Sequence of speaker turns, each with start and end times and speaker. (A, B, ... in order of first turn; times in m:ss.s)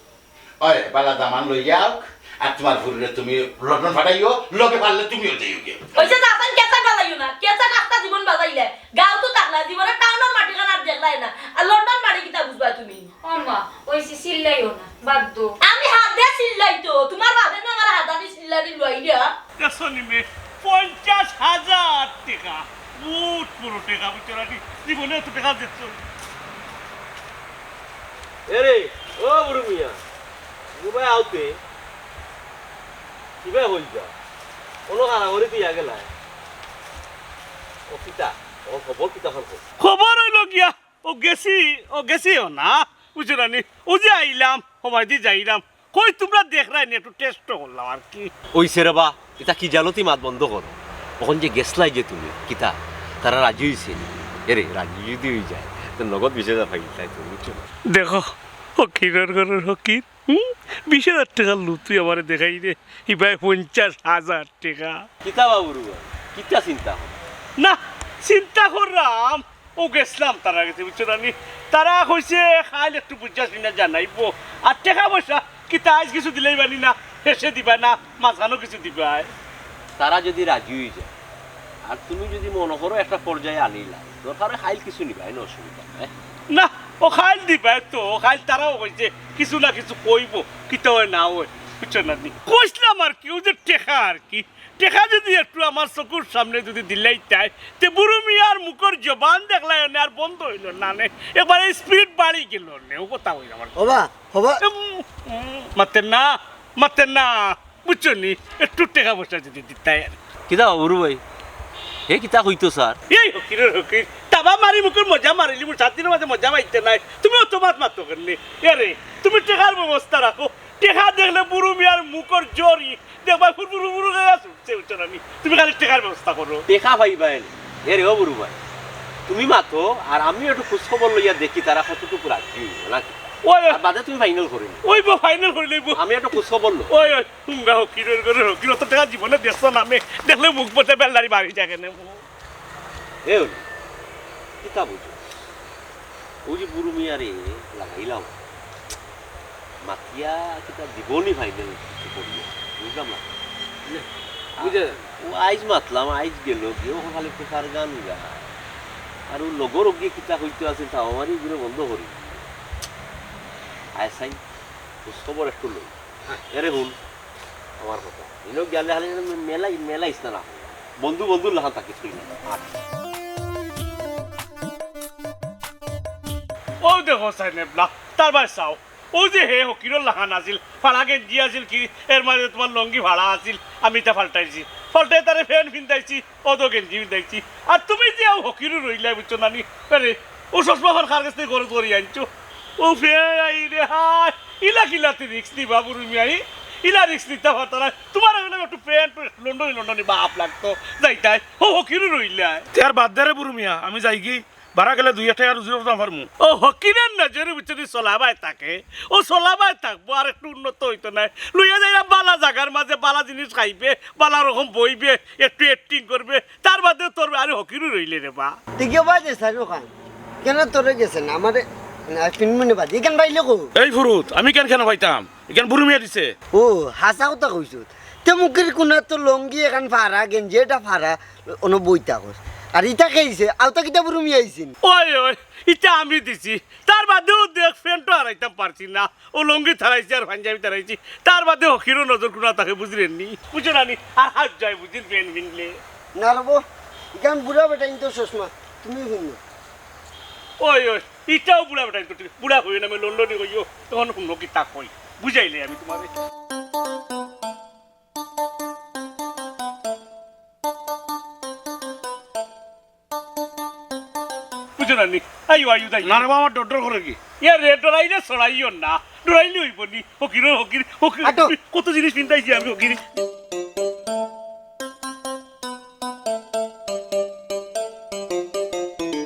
0:00.6-0:06.1 A
0:06.0-0:13.1 B
0:13.2-0:15.5 C
0:15.6-0:19.3 B
0:19.6-0:26.0 D
0:28.5-0:30.0 E
0:30.8-0:31.6 E
0:33.4-0:34.1 E
0:34.9-0:36.1 E
0:37.9-0:39.6 E
0:39.8-0:48.3 D
0:48.5-0:57.7 E
0:57.9-1:05.0 D
1:05.2-1:07.2 E
1:07.6-1:19.3 D
1:20.0-1:21.1 E
1:21.8-1:26.1 E
1:26.5-1:44.0 D
1:43.8-1:44.6 F
1:44.6-1:50.2 D
1:50.5-1:51.2 E
1:52.1-1:53.0 E
1:53.1-2:06.6 D
2:06.7-2:08.6 E
2:09.3-2:14.8 E
2:13.4-2:13.8 D
2:14.8-2:16.0 D
2:15.9-2:16.9 E
2:16.9-2:22.2 D
2:23.2-2:23.6 E
2:24.6-2:25.3 E
2:26.4-2:28.4 E
2:29.8-2:38.4 E
2:39.3-2:42.4 E
2:43.9-2:44.4 E
2:45.0-2:47.0 E
2:47.8-2:52.8 E
2:56.8-3:12.3 D
3:12.8-3:22.6 D
3:22.7-3:26.3 G
3:26.4-3:38.6 D
3:38.8-3:39.9 F
3:40.4-3:43.7 F
3:43.8-3:46.3 G
3:46.5-3:54.7 F
3:54.8-4:05.8 D
4:06.2-4:06.6 F
4:07.2-4:09.4 F
4:10.6-4:16.1 D
4:24.8-4:26.3 D
4:26.0-4:27.2 G
4:27.4-4:33.0 D
4:31.2-4:31.5 F